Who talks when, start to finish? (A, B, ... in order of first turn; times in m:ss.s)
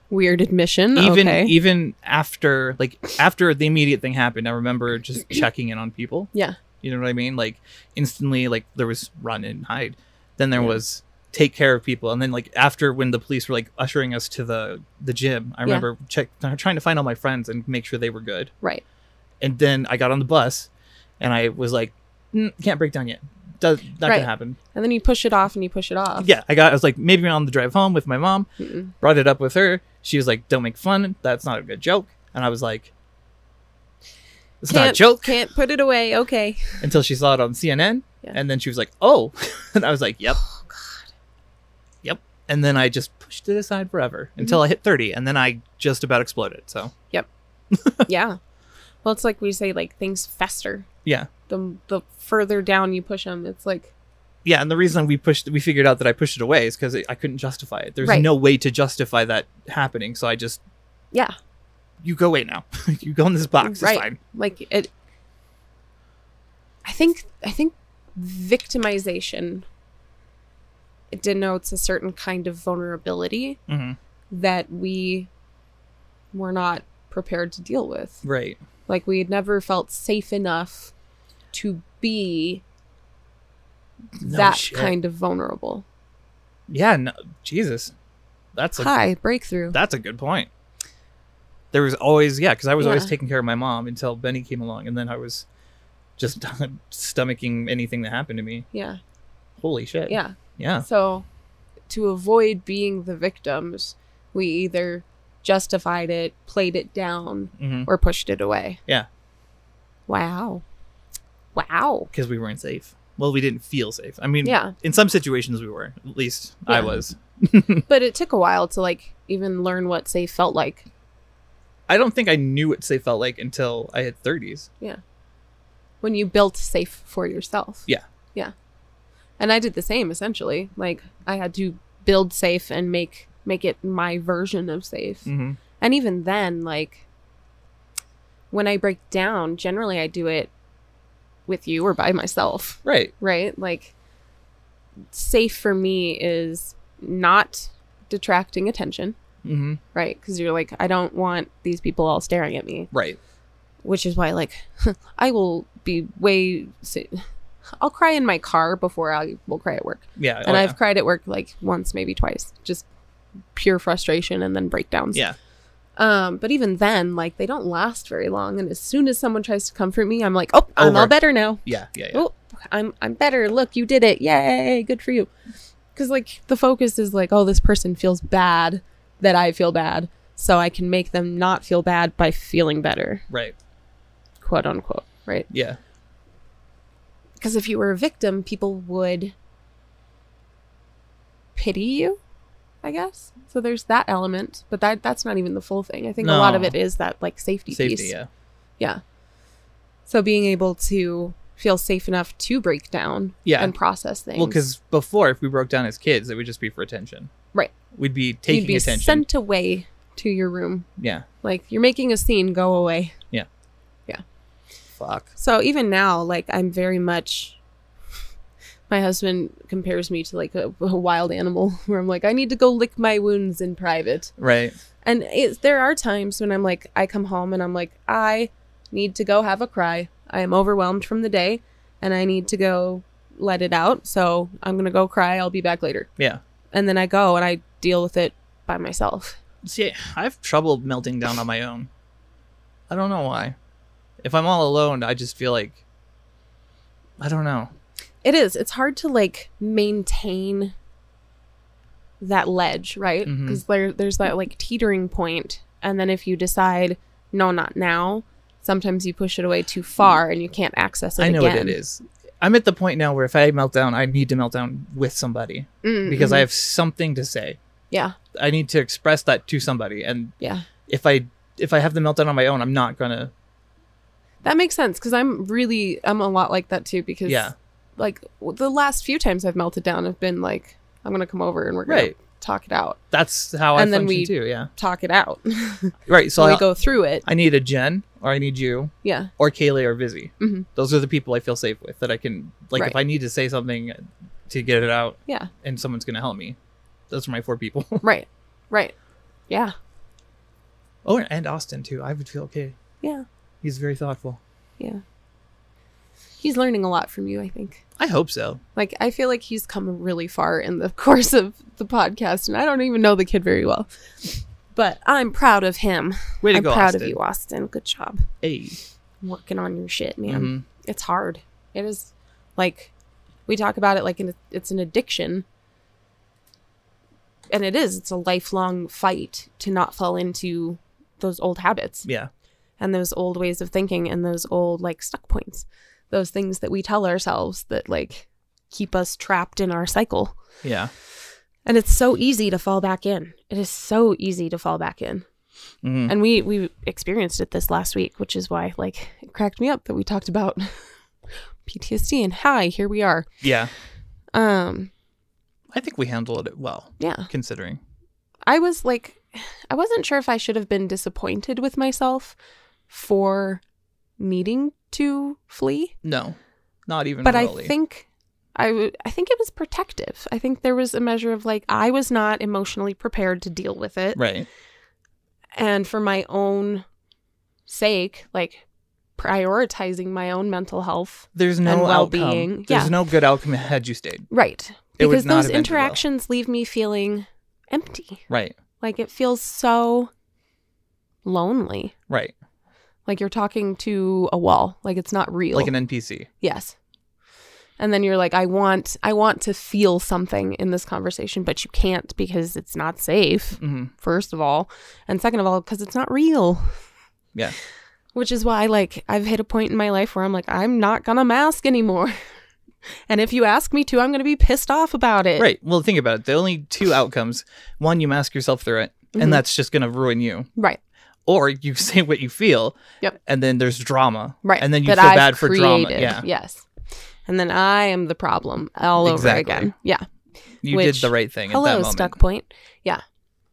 0:00.1-0:01.6 A
0:00.9-0:06.3 B
0:06.8-0:18.5 B
0:19.4-0:20.7 B
0:21.2-0:24.6 B
0:24.0-0:26.3 A
0:26.2-0:28.5 B
0:28.6-0:28.9 A
0:29.0-0:32.9 B
0:34.6-0:35.4 B
0:34.7-0:36.8 A
0:36.8-0:40.4 B
0:40.5-0:41.0 A
0:42.0-0:46.9 B
0:47.7-0:48.0 B
0:48.0-0:48.4 A
0:49.0-0:50.9 A
0:51.5-0:53.9 A
0:54.4-1:00.6 B
0:58.0-0:58.3 A
1:02.0-1:04.2 B
1:03.6-1:04.9 A
1:06.8-1:09.6 A
1:11.1-1:13.6 A
1:13.7-1:14.0 B
1:14.3-1:15.3 A
1:16.3-1:18.2 A
1:18.2-1:18.6 B
1:18.9-1:20.9 A
1:21.5-1:22.6 A
1:24.2-1:24.9 B
1:24.2-1:25.8 A
1:26.7-1:27.9 B
1:28.5-1:28.9 B
1:28.8-1:29.8 A
1:29.7-1:30.5 B
1:31.7-1:35.4 B
1:32.8-1:33.1 A
1:36.2-1:38.6 B
1:38.7-1:39.0 A
1:39.6-1:40.8 B
1:40.1-1:41.2 A
1:41.9-1:48.8 A
1:47.6-1:47.9 B
1:50.1-1:50.6 A
1:51.5-1:52.1 A
1:52.1-1:57.8 B
1:54.4-1:54.7 A
1:57.9-2:00.8 A
2:01.9-2:04.7 B
2:06.0-2:08.5 A
2:09.4-2:15.3 A
2:15.2-2:15.6 B
2:15.8-2:17.0 A
2:18.5-2:20.5 A
2:21.5-2:23.9 A
2:22.8-2:23.1 B
2:25.1-2:29.2 A
2:29.4-2:29.8 B
2:29.9-2:32.9 A
2:32.9-2:33.2 B
2:33.8-2:37.2 A
2:37.8-2:42.9 A
2:40.2-2:40.8 B
2:43.5-2:45.2 A
2:46.0-2:55.3 A
2:50.8-2:51.1 B
2:51.6-2:52.2 B
2:55.9-3:03.2 A
3:03.3-3:03.5 B
3:04.4-3:05.5 A
3:05.5-3:05.8 B
3:07.4-3:09.3 A
3:11.6-3:12.2 A
3:12.8-3:18.1 A
3:16.2-3:16.8 B
3:17.7-3:18.3 B
3:20.1-3:24.6 A
3:23.4-3:23.7 B
3:24.3-3:27.3 B
3:27.9-3:29.2 B
3:28.5-3:30.9 A
3:31.0-3:31.2 B
3:31.4-3:33.1 A
3:35.0-3:35.3 B
3:35.4-3:37.6 A
3:38.9-3:44.3 A
3:44.4-3:44.8 B
3:45.0-3:56.1 A
3:56.7-3:59.4 A
3:59.6-4:01.9 B
4:02.9-4:03.5 B
4:04.2-4:05.8 B
4:07.2-4:07.7 B
4:08.2-4:10.7 A
4:12.2-4:21.8 A
4:13.2-4:13.6 B
4:21.2-4:27.6 B
4:25.8-4:26.4 A
4:27.9-4:28.2 A
4:28.3-4:30.3 B
4:30.4-4:30.6 A
4:30.9-4:33.3 B
4:34.4-4:43.0 A
4:37.2-4:37.5 B
4:41.9-4:42.1 B
4:43.1-4:44.7 B
4:43.7-4:47.2 A
4:46.1-4:46.6 B
4:47.2-4:56.6 B
4:49.0-4:49.3 A
4:50.4-4:50.6 A
4:57.1-4:58.0 B
4:58.0-4:58.9 A
4:59.5-4:59.7 A
5:01.0-5:02.8 B
5:03.6-5:04.4 B
5:06.4-5:07.8 A
5:08.0-5:08.6 B
5:08.7-5:18.3 A
5:16.4-5:17.2 B
5:18.4-5:18.8 B
5:19.2-5:22.9 A
5:20.3-5:20.6 B
5:23.5-5:25.4 A
5:27.5-5:32.1 A
5:32.0-5:32.3 B
5:32.8-5:40.4 A
5:40.6-5:40.9 B
5:41.6-5:45.2 A
5:45.8-5:46.1 B
5:46.1-5:50.9 A
5:51.6-5:53.3 A
5:53.4-5:53.7 B
5:54.3-5:54.9 A
5:55.7-5:57.8 B
5:57.0-5:57.3 A
5:58.5-6:02.4 A
6:02.9-6:03.6 A
6:04.2-6:05.9 A
6:06.0-6:06.4 B
6:06.9-6:07.7 B
6:07.2-6:14.2 A
6:14.2-6:14.5 B
6:15.6-6:16.8 A
6:17.7-6:18.6 A
6:19.2-6:22.9 A
6:21.3-6:24.3 B
6:24.3-6:28.2 A
6:25.0-6:26.0 B
6:28.3-6:28.6 B
6:28.8-6:30.1 A
6:31.2-6:31.9 A
6:33.0-6:35.7 A
6:35.5-6:36.3 B
6:36.4-6:36.7 A
6:37.8-6:46.8 A
6:43.6-6:43.9 B
6:48.1-6:52.2 A
6:53.1-6:55.5 A
6:55.4-7:00.5 B
6:59.1-6:59.4 A
7:01.3-7:06.2 B
7:04.4-7:06.6 A
7:07.3-7:10.0 A
7:09.0-7:09.7 B
7:10.6-7:12.2 B
7:10.7-7:13.0 A